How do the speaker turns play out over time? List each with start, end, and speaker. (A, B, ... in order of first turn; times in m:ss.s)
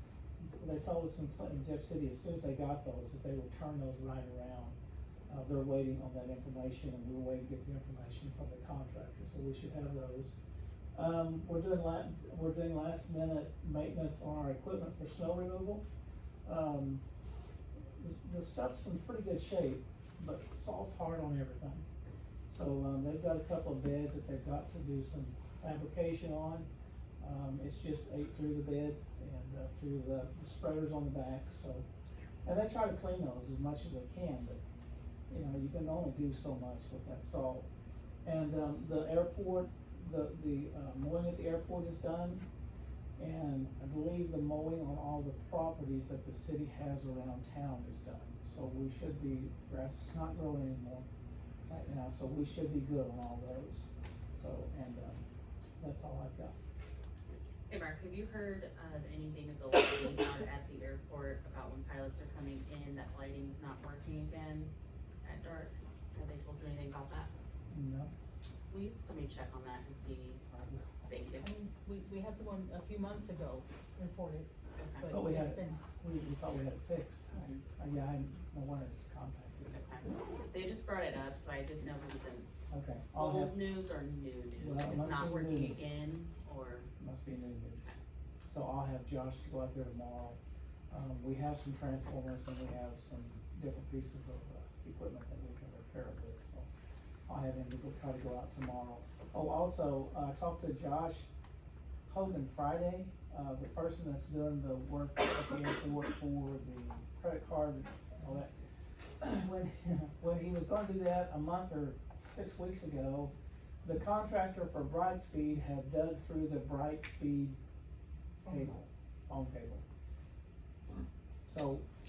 0:00.6-0:04.8 A
0:05.3-0:10.4 A
0:10.9-0:15.8 A
0:16.4-0:17.0 A
0:18.0-0:21.8 A
0:22.5-0:26.7 A
0:27.2-0:31.8 A
0:32.4-0:34.6 A
0:35.3-0:37.7 A
0:38.2-0:42.4 A
0:43.2-0:51.1 A
0:51.7-0:55.2 A
0:55.8-0:56.5 A
0:57.7-1:04.7 B
1:05.2-1:07.3 B
1:07.7-1:08.1 A
1:08.7-1:10.4 B
1:10.5-1:10.8 A
1:11.0-1:11.5 B
1:11.4-1:15.9 C
1:14.8-1:15.1 B
1:15.1-1:19.8 A
1:17.3-1:17.6 B
1:19.7-1:22.5 B
1:22.7-1:23.6 A
1:23.2-1:26.9 B
1:24.6-1:25.8 A
1:27.0-1:27.9 A
1:28.5-1:30.4 A
1:30.9-1:36.7 A
1:37.3-1:41.3 A
1:42.1-1:48.5 A
1:49.2-1:57.6 A
1:58.4-1:58.8 C
1:58.4-1:59.8 A
2:01.5-2:01.8 A